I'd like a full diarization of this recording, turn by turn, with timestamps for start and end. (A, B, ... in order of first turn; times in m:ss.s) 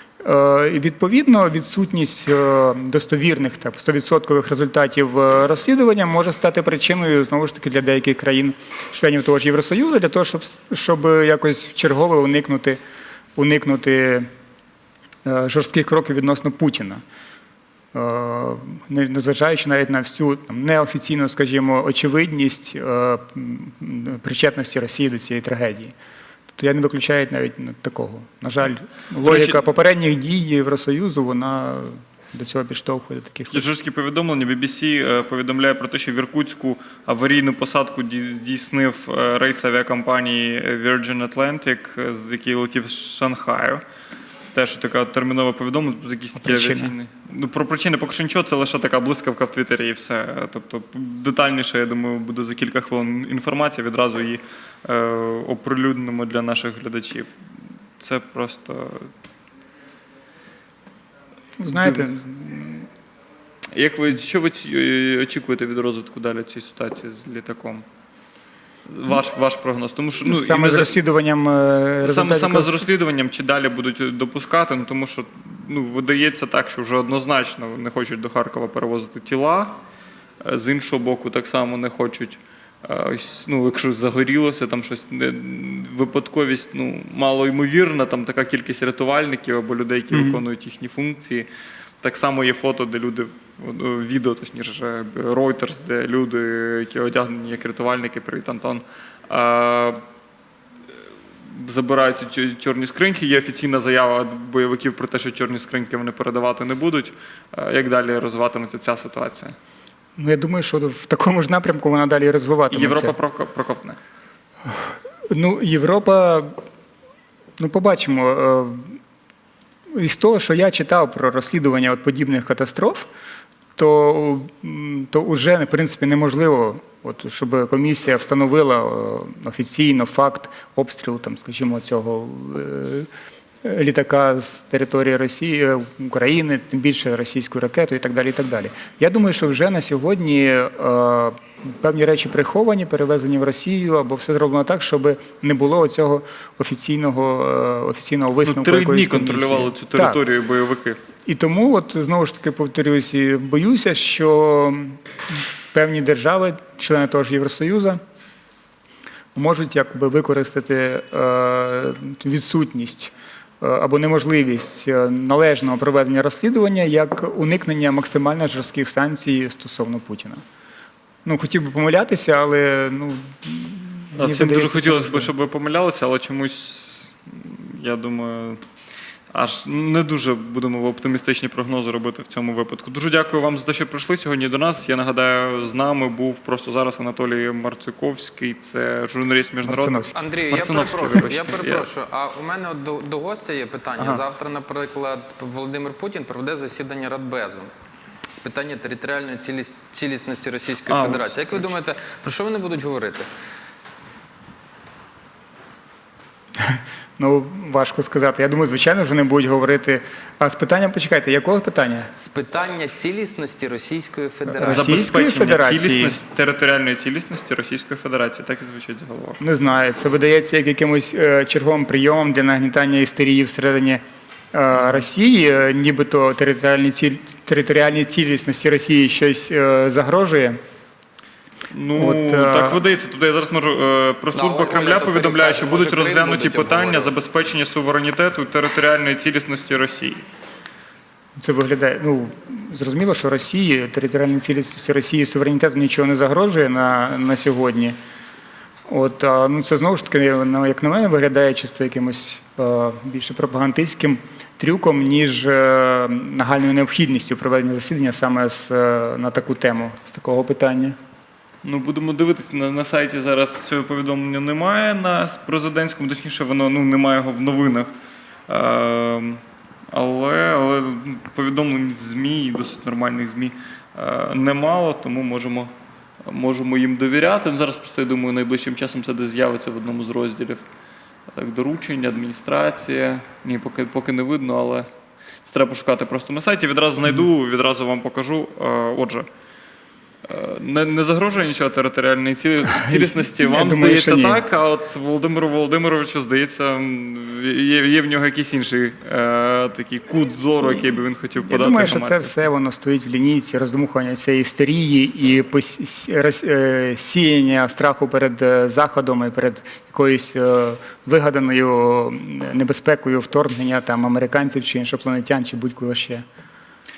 0:00.2-0:12.8 A
0:13.4-0:14.3 A
0:15.2-0:17.0 A
0:17.9-0:25.9 A
0:26.6-0:33.7 A
0:29.2-0:29.6 B
0:33.5-0:43.8 B
0:44.5-0:57.4 B
0:46.4-0:46.9 A
0:58.0-0:59.1 B
1:01.6-1:02.9 A
1:01.7-1:02.1 B
1:03.7-1:07.9 B
1:08.9-1:11.0 B
1:10.2-1:12.9 A
1:12.0-1:19.8 B
1:20.4-1:31.5 B
1:30.1-1:30.4 A
1:32.0-1:40.0 B
1:41.5-1:49.6 B
1:50.2-1:53.2 A
1:52.7-1:54.0 B
1:54.7-1:56.6 A
1:57.6-1:59.0 A
1:59.9-2:03.1 A
2:03.8-2:13.1 A
2:13.6-2:30.2 A
2:28.4-2:31.0 B
2:31.3-2:38.0 A
2:39.4-2:50.4 A
2:51.2-2:55.3 A
2:54.2-2:58.6 B
2:59.3-3:11.9 B
3:09.6-3:10.2 A
3:10.1-3:17.7 C
3:14.0-3:14.2 B
3:18.3-3:23.3 C
3:20.9-3:21.7 B
3:26.6-3:32.1 A
3:32.1-3:34.9 C
3:34.5-3:36.2 A
3:34.6-3:39.4 B
3:39.4-3:50.6 A
3:51.7-4:00.2 B
3:52.0-3:52.8 A
3:54.3-3:57.1 C
4:01.4-4:08.0 A
4:08.9-4:21.0 A
4:21.6-4:27.9 B
4:28.5-4:35.7 B
4:36.2-4:40.6 B
4:41.3-4:44.9 B
4:45.4-4:49.3 B
4:50.2-5:02.3 B
4:52.8-4:54.4 A
5:01.4-5:16.2 A